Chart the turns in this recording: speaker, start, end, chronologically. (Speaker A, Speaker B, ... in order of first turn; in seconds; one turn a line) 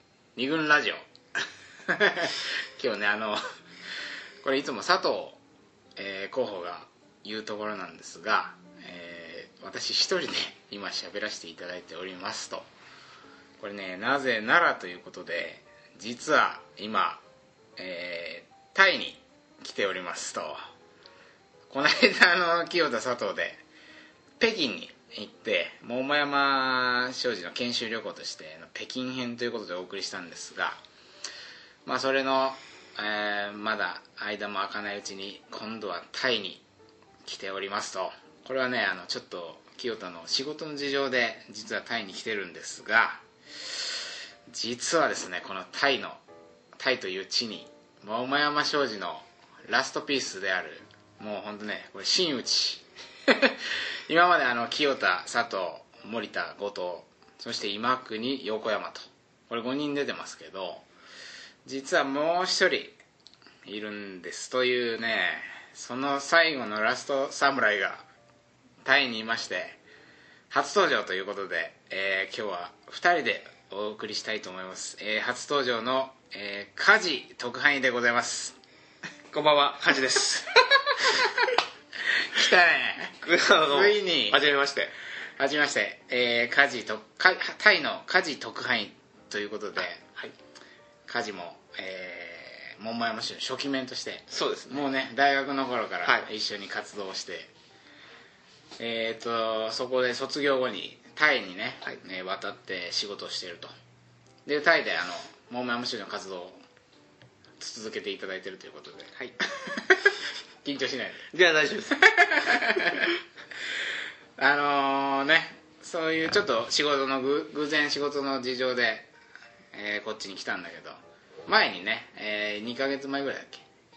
Speaker A: 0.3-3.4
Speaker A: 4.4-5.4
Speaker A: 6.0-12.7
Speaker A: 13.6-17.2
Speaker A: 17.8-20.6
Speaker A: 21.7-23.6
Speaker A: 24.4-30.8
Speaker A: 31.8-36.6
Speaker A: 37.2-46.2
Speaker A: 46.8-60.9
Speaker A: 61.6-63.0
Speaker A: 63.6-68.1
Speaker A: 68.8-69.8
Speaker A: 70.5-78.6
Speaker B: 79.3-80.5
Speaker A: 80.5-84.4
Speaker B: 83.2-84.9
Speaker A: 85.4-90.0
Speaker A: 91.1-97.5
Speaker B: 94.3-94.9
Speaker A: 98.8-103.7
Speaker A: 104.4-106.6
Speaker A: 107.6-111.3
Speaker B: 111.3-112.0
Speaker A: 111.9-113.1
Speaker A: 114.4-119.1
Speaker A: 119.7-123.7